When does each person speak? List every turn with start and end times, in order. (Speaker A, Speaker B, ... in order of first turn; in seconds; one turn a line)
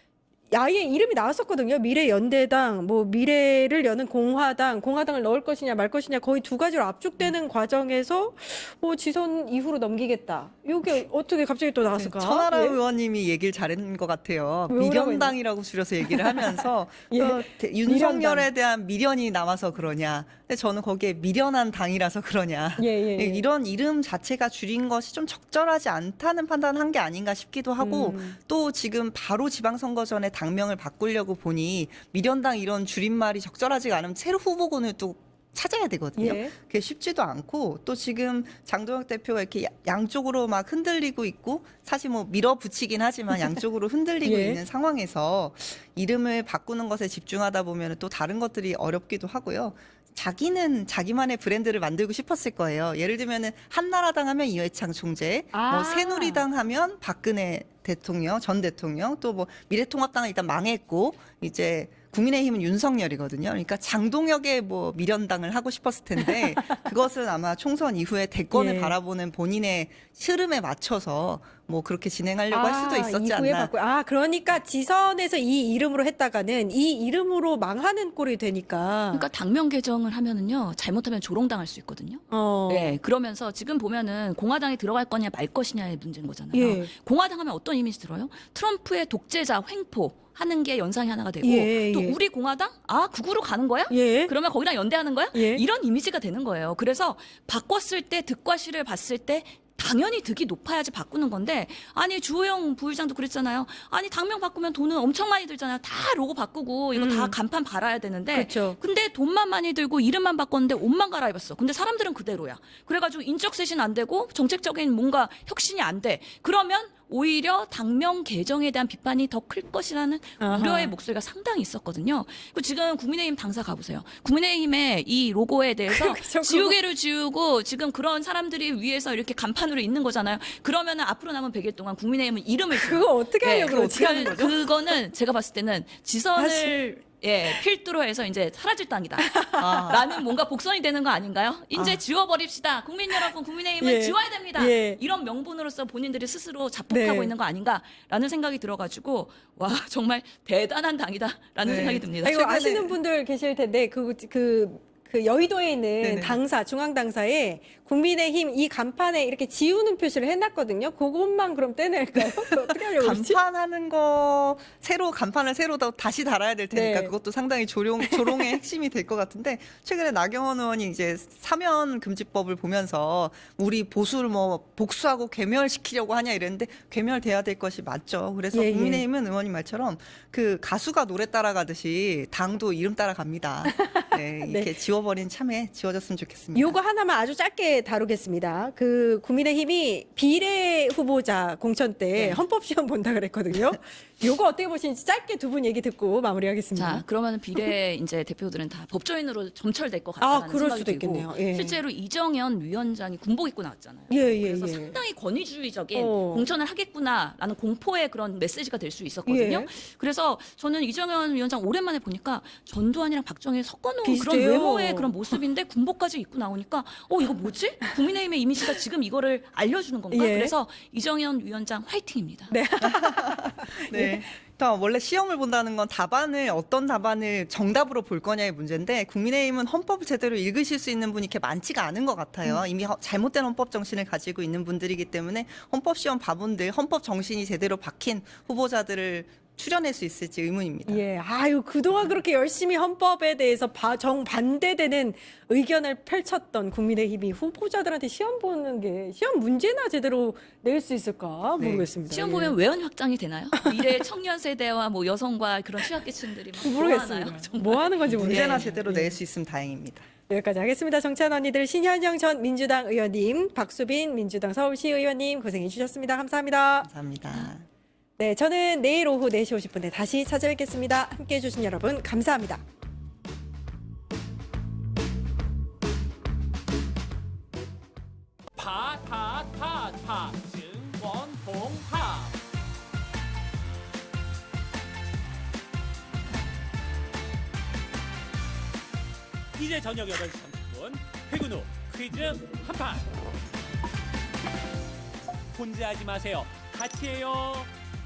Speaker A: 0.5-12.8
Speaker B: 11.9-73.7
Speaker A: 14.7-15.3
Speaker A: 16.1-18.5
Speaker A: 22.8-23.4
Speaker A: 27.8-28.4
Speaker A: 36.2-36.5
Speaker A: 44.2-44.6
Speaker A: 55.5-56.5
Speaker A: 66.2-66.7
Speaker A: 68.5-69.0
Speaker A: 72.5-79.3
Speaker C: 79.1-152.5
Speaker A: 82.3-83.0
Speaker A: 86.5-86.9
Speaker A: 91.4-92.2
Speaker A: 93.9-94.3
Speaker A: 95.3-95.6
Speaker A: 107.0-107.3
Speaker A: 108.3-108.8
Speaker A: 120.4-120.9
Speaker A: 125.9-126.8
Speaker A: 132.7-134.5
Speaker B: 133.5-134.6
Speaker A: 136.3-136.8
Speaker A: 139.2-140.1
Speaker B: 139.6-140.0
Speaker A: 143.1-145.0
Speaker A: 146.9-147.3
Speaker B: 151.6-153.0
Speaker A: 152.2-163.4
Speaker B: 156.0-156.4
Speaker B: 162.2-186.8
Speaker A: 166.7-167.1
Speaker A: 168.0-168.5
Speaker A: 178.5-179.0
Speaker A: 183.7-184.7
Speaker A: 186.6-197.0
Speaker C: 192.2-192.4
Speaker C: 196.7-222.6
Speaker A: 200.2-201.8
Speaker A: 204.1-205.0
Speaker A: 205.9-206.5
Speaker A: 209.3-209.7
Speaker A: 214.0-215.4
Speaker A: 220.1-220.5
Speaker A: 222.5-224.2
Speaker B: 222.8-241.0
Speaker A: 240.9-252.6
Speaker B: 251.6-251.9
Speaker C: 252.1-258.8
Speaker A: 256.6-259.2
Speaker B: 258.2-260.1
Speaker A: 260.3-266.9
Speaker B: 266.8-267.7
Speaker A: 268.2-272.6
Speaker D: 278.5-282.4
Speaker D: 289.5-293.1
Speaker D: 295.5-297.7